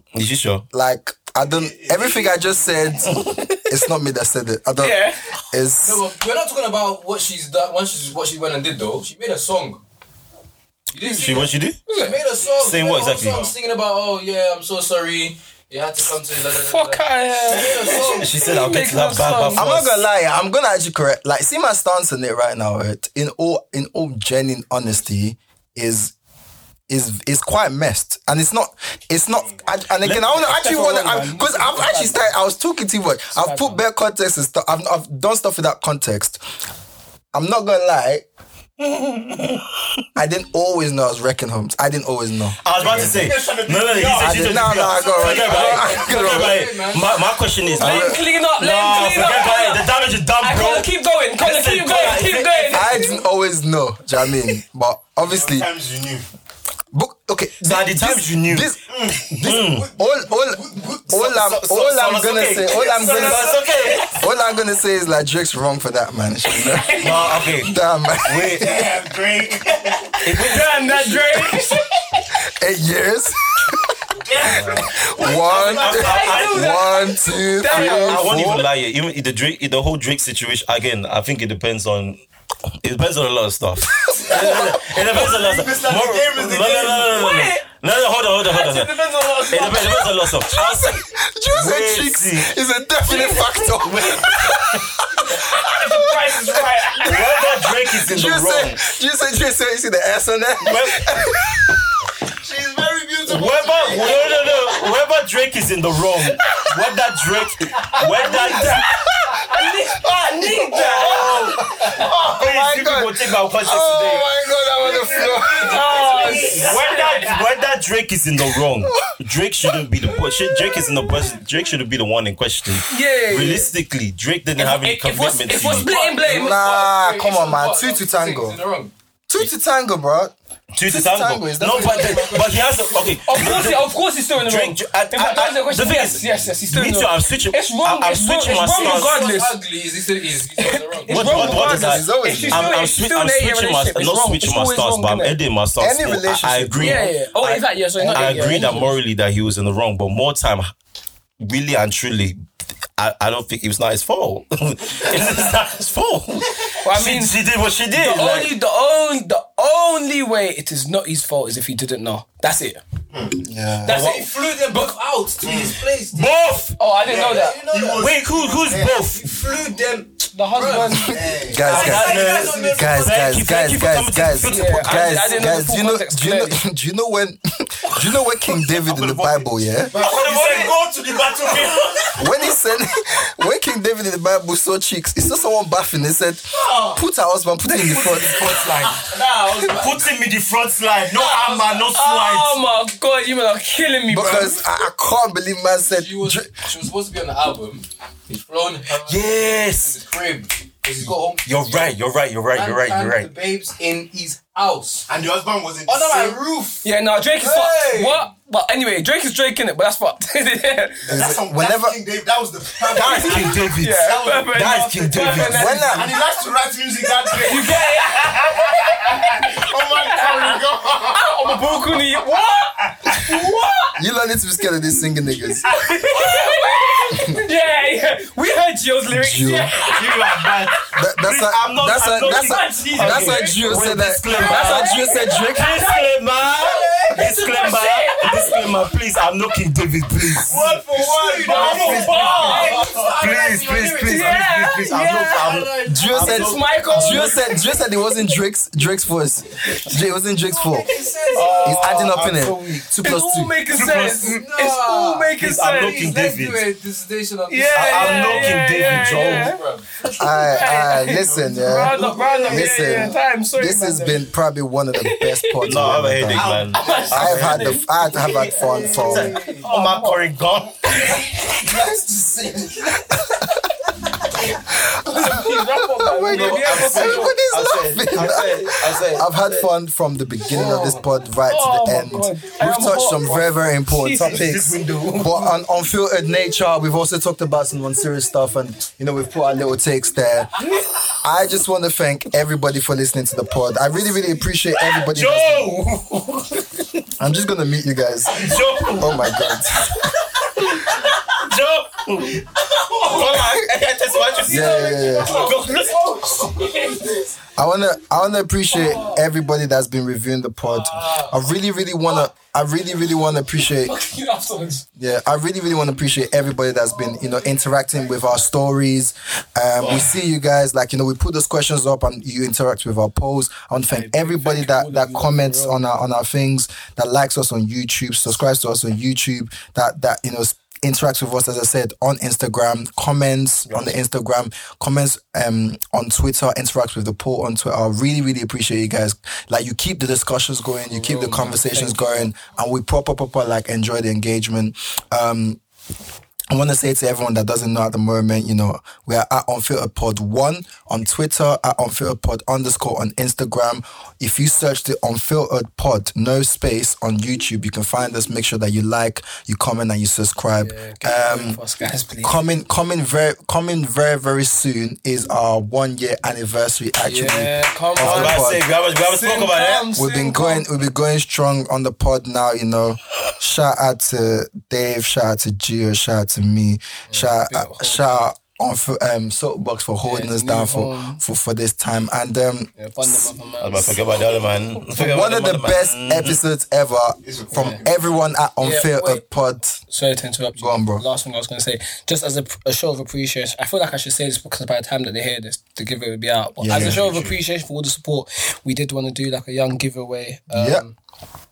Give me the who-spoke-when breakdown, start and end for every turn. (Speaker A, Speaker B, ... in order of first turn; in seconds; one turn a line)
Speaker A: 0.1-0.6
Speaker B: 0.7-6.0
Speaker C: 1.4-2.9
Speaker A: 3.0-3.7
Speaker D: 4.8-5.3
Speaker E: 5.8-9.8
Speaker E: 10.9-18.5
Speaker A: 11.1-11.8
Speaker D: 11.9-12.2
Speaker C: 12.4-13.5
Speaker A: 12.6-13.4
Speaker D: 16.5-19.8
Speaker C: 17.5-18.4
Speaker A: 18.2-20.0
Speaker B: 19.5-26.1
Speaker B: 26.9-36.4
Speaker D: 30.0-32.3
Speaker D: 33.3-33.8
Speaker B: 37.3-38.2
Speaker A: 38.8-39.7
Speaker B: 40.1-43.1
Speaker A: 42.6-53.0
Speaker C: 42.7-46.2
Speaker B: 44.1-46.7
Speaker E: 45.4-47.8
Speaker D: 47.7-53.1
Speaker B: 47.8-48.3
Speaker B: 52.7-55.7
Speaker C: 55.2-56.2
Speaker B: 56.9-68.8
Speaker A: 57.6-58.7
Speaker C: 58.9-61.1
Speaker A: 59.4-59.9
Speaker A: 61.1-64.2
Speaker D: 62.7-64.0
Speaker C: 62.7-64.1
Speaker D: 66.6-67.2
Speaker A: 67.0-68.8
Speaker C: 68.4-70.3
Speaker A: 70.2-70.7
Speaker D: 70.4-71.9
Speaker B: 72.5-74.0
Speaker C: 74.2-76.1
Speaker A: 74.5-76.9
Speaker B: 75.1-78.7
Speaker D: 75.8-78.5
Speaker A: 77.6-82.2
Speaker A: 82.8-92.5
Speaker B: 84.2-84.7
Speaker C: 84.3-87.2
Speaker D: 86.8-87.6
Speaker D: 88.4-90.2
Speaker B: 90.4-101.9
Speaker D: 93.1-94.3
Speaker D: 95.2-97.3
Speaker A: 97.0-98.8
Speaker A: 100.6-101.1
Speaker C: 102.3-104.7
Speaker A: 103.2-108.8
Speaker D: 107.8-111.5
Speaker B: 108.9-109.7
Speaker B: 110.3-116.3
Speaker A: 112.0-114.3
Speaker C: 114.8-116.9
Speaker D: 115.5-117.4
Speaker A: 116.0-126.0
Speaker B: 118.8-119.1
Speaker B: 120.5-120.7
Speaker D: 122.9-123.7
Speaker D: 124.6-126.6
Speaker E: 125.6-128.9
Speaker B: 126.2-128.6
Speaker B: 129.3-132.4
Speaker A: 130.7-139.3
Speaker E: 131.6-133.2
Speaker D: 133.2-139.6
Speaker E: 138.5-141.6
Speaker D: 140.9-145.4
Speaker A: 141.1-150.7
Speaker B: 141.2-142.8
Speaker B: 145.8-147.1
Speaker D: 146.8-148.9
Speaker E: 148.1-148.8
Speaker A: 151.4-152.4
Speaker A: 153.0-158.6
Speaker D: 156.8-157.4
Speaker D: 157.9-162.8
Speaker C: 163.1-163.4
Speaker B: 163.4-164.0
Speaker D: 163.8-164.9
Speaker E: 163.8-166.3
Speaker A: 163.9-164.3
Speaker C: 165.4-165.8
Speaker A: 166.1-166.8
Speaker D: 166.7-167.6
Speaker C: 167.0-168.9
Speaker E: 167.0-173.4
Speaker A: 168.0-169.4
Speaker D: 170.3-171.2
Speaker B: 170.9-179.9
Speaker C: 171.3-172.9
Speaker A: 171.6-175.3
Speaker D: 174.4-176.6
Speaker A: 178.5-182.2
Speaker C: 179.9-182.2
Speaker B: 182.1-189.0
Speaker E: 187.9-190.1
Speaker C: 188.0-189.1
Speaker A: 188.1-188.8
Speaker A: 189.6-192.6
Speaker C: 191.3-191.5
Speaker D: 191.9-194.6
Speaker B: 194.1-196.6
Speaker E: 195.9-201.9
Speaker A: 199.0-200.0
Speaker A: 201.4-203.3
Speaker E: 202.5-205.1
Speaker C: 205.1-206.4
Speaker E: 205.8-208.3
Speaker D: 206.8-211.1
Speaker C: 211.1-222.1
Speaker B: 211.1-212.0
Speaker D: 212.9-216.2
Speaker A: 212.9-215.8
Speaker B: 215.4-216.2
Speaker D: 217.4-220.6
Speaker D: 221.1-223.9
Speaker C: 222.8-223.5
Speaker B: 224.0-225.6
Speaker D: 225.6-230.6
Speaker E: 226.3-226.6
Speaker B: 229.1-229.8
Speaker A: 229.8-240.6
Speaker C: 229.9-230.6
Speaker B: 230.9-235.7
Speaker D: 232.2-233.7
Speaker D: 234.3-236.1
Speaker E: 236.4-237.8
Speaker D: 237.1-238.8
Speaker C: 240.4-243.3
Speaker E: 240.4-244.5
Speaker D: 241.4-242.8
Speaker A: 241.8-247.5
Speaker D: 244.0-245.5
Speaker E: 245.3-246.4
Speaker B: 245.8-250.9
Speaker D: 246.2-247.5
Speaker C: 246.8-247.4
Speaker E: 250.4-252.5
Speaker D: 251.2-251.4
Speaker A: 251.3-252.7
Speaker B: 251.6-253.5
Speaker D: 253.0-256.0
Speaker A: 253.7-254.4
Speaker E: 254.2-263.1
Speaker A: 255.4-256.6
Speaker D: 257.5-259.6
Speaker A: 257.7-259.6
Speaker B: 260.1-266.5
Speaker D: 260.2-264.3
Speaker D: 264.9-265.9
Speaker A: 265.6-271.0
Speaker C: 266.3-268.2
Speaker D: 266.7-267.8
Speaker B: 267.1-269.4
Speaker D: 268.6-270.2
Speaker E: 269.0-269.6
Speaker D: 270.8-271.6
Speaker C: 271.6-272.8
Speaker B: 271.6-272.0
Speaker B: 273.0-273.7
Speaker D: 274.7-277.4
Speaker B: 274.7-290.5
Speaker A: 276.3-279.7
Speaker D: 280.5-284.5
Speaker E: 280.6-280.9
Speaker C: 284.2-285.5
Speaker A: 284.4-285.3
Speaker B: 291.2-295.7
Speaker A: 294.8-297.0
Speaker B: 297.2-300.1
Speaker A: 298.3-299.6
Speaker A: 300.4-306.0
Speaker D: 302.9-303.5
Speaker D: 304.1-307.3
Speaker B: 304.4-305.4
Speaker E: 305.1-305.8
Speaker B: 307.6-313.9
Speaker D: 308.7-309.2
Speaker D: 313.6-314.8
Speaker B: 315.0-345.6
Speaker D: 323.9-325.8
Speaker D: 340.9-342.3
Speaker B: 346.5-361.6
Speaker D: 360.6-362.3
Speaker B: 362.2-368.6
Speaker D: 367.0-368.4
Speaker A: 368.0-369.9
Speaker D: 369.0-370.7
Speaker B: 369.9-383.3
Speaker D: 377.1-378.2
Speaker D: 380.0-381.2
Speaker D: 382.8-384.0
Speaker A: 383.6-386.4
Speaker B: 384.9-389.8
Speaker C: 387.2-388.0
Speaker D: 387.5-387.8
Speaker D: 388.6-389.2
Speaker D: 389.9-400.9
Speaker B: 390.6-391.0
Speaker B: 396.6-397.0
Speaker C: 396.7-397.3
Speaker B: 400.5-400.9